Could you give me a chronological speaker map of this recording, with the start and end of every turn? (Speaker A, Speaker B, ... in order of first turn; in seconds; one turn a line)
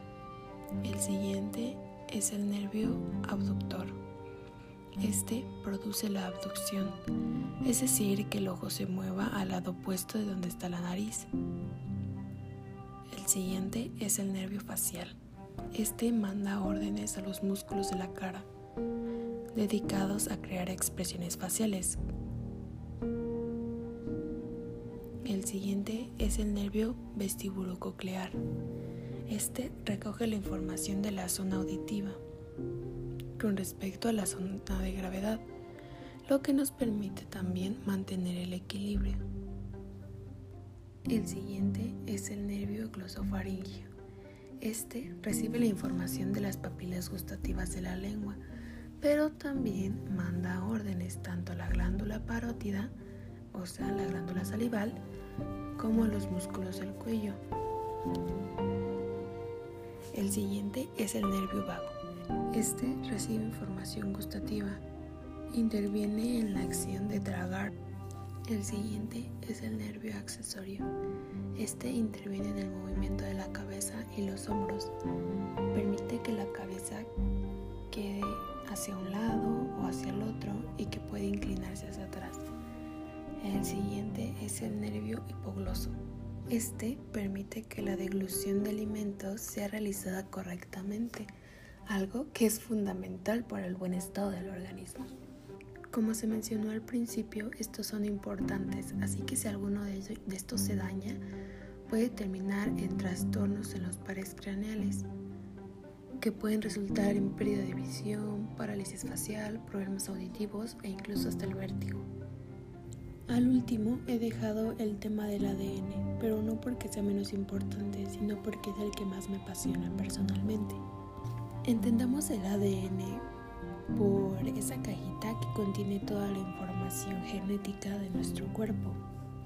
Speaker A: 0.8-4.0
Speaker A: 5.0-7.0
Speaker A: 7.6-11.3
Speaker A: 13.1-15.2
Speaker A: 15.7-18.5
Speaker A: 19.5-22.0
Speaker A: 25.2-28.4
Speaker A: 29.3-32.2
Speaker A: 33.4-35.4
Speaker A: 36.2-39.2
Speaker A: 41.1-43.9
Speaker A: 44.6-48.4
Speaker A: 49.0-52.9
Speaker A: 53.5-55.0
Speaker A: 55.8-57.4
Speaker A: 60.1-62.0
Speaker A: 62.5-64.8
Speaker A: 65.5-67.7
Speaker A: 68.5-70.9
Speaker A: 71.5-74.9
Speaker A: 75.7-77.1
Speaker A: 77.9-82.5
Speaker A: 83.4-86.0
Speaker A: 86.5-91.3
Speaker A: 91.9-95.1
Speaker A: 95.9-101.2
Speaker A: 101.9-105.0
Speaker A: 106.2-112.1
Speaker A: 113.3-120.8
Speaker A: 121.6-123.2
Speaker A: 123.9-129.0